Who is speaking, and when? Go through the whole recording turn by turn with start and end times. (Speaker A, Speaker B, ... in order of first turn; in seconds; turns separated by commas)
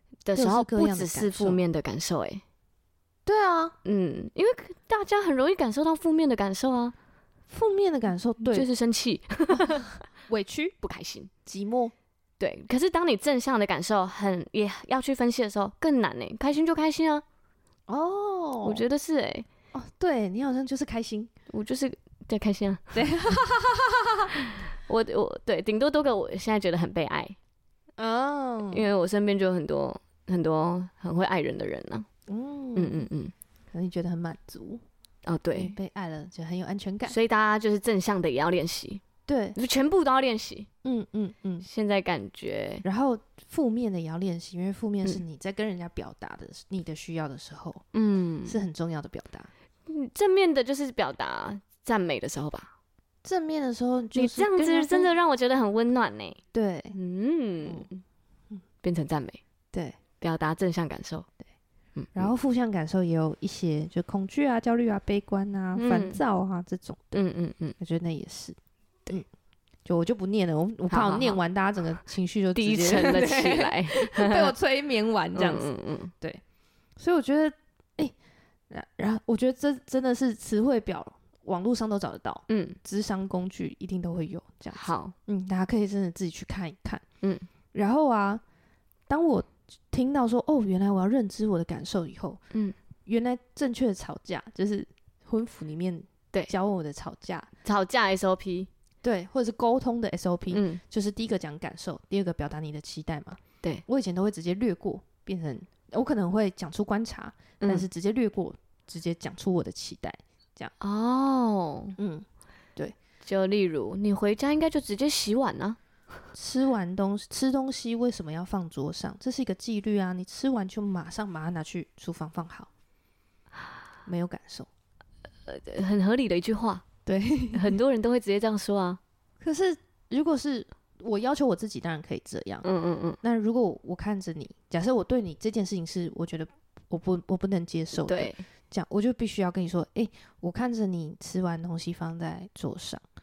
Speaker A: 0.2-2.4, Speaker B: 0.3-1.6, Speaker B: 3.3-3.8, Speaker A: 3.9-7.0, Speaker B: 7.5-8.7, Speaker A: 8.5-9.9, Speaker B: 9.5-10.8, Speaker A: 10.8-11.3, Speaker B: 11.4-11.9, Speaker A: 12.4-17.2, Speaker B: 17.9-18.8, Speaker A: 18.6-19.5, Speaker B: 19.7-21.3, Speaker A: 21.5-23.0, Speaker B: 22.9-24.4, Speaker A: 24.4-27.4, Speaker B: 28.0-28.9, Speaker A: 28.7-32.1, Speaker B: 32.3-33.1, Speaker A: 32.8-33.3, Speaker B: 33.7-34.8, Speaker A: 35.2-35.8, Speaker B: 35.5-37.2, Speaker A: 37.1-39.0, Speaker B: 39.3-39.6, Speaker A: 39.5-40.7, Speaker B: 40.8-41.7, Speaker A: 41.6-42.9, Speaker B: 42.8-47.9, Speaker A: 47.9-48.6, Speaker B: 48.5-49.5, Speaker A: 49.9-52.7, Speaker B: 53.2-55.1, Speaker A: 54.1-56.4, Speaker B: 56.5-57.0, Speaker A: 56.9-58.0, Speaker A: 58.8-59.4, Speaker B: 59.7-60.0, Speaker A: 60.2-61.3, Speaker A: 62.0-62.3, Speaker B: 62.1-67.2, Speaker A: 65.8-66.2, Speaker A: 67.1-67.8, Speaker B: 67.8-68.6, Speaker B: 69.8-75.7, Speaker A: 70.9-71.4, Speaker A: 72.5-74.5, Speaker A: 75.3-76.1, Speaker B: 77.0-78.1, Speaker B: 78.7-87.0, Speaker A: 82.5-82.8, Speaker A: 84.8-85.2, Speaker A: 87.2-87.5, Speaker B: 87.7-88.4, Speaker B: 89.1-92.4, Speaker B: 93.1-97.5, Speaker A: 97.6-98.7, Speaker B: 99.0-110.7, Speaker A: 100.5-100.8, Speaker A: 107.6-107.9, Speaker A: 110.8-112.0, Speaker B: 112.0-112.2, Speaker A: 113.2-115.8, Speaker B: 116.3-122.7, Speaker B: 124.0-124.7, Speaker A: 125.5-126.9, Speaker B: 127.1-127.7, Speaker A: 127.5-129.0, Speaker B: 129.4-132.7, Speaker A: 132.6-133.2, Speaker B: 133.2-143.0, Speaker A: 138.0-138.4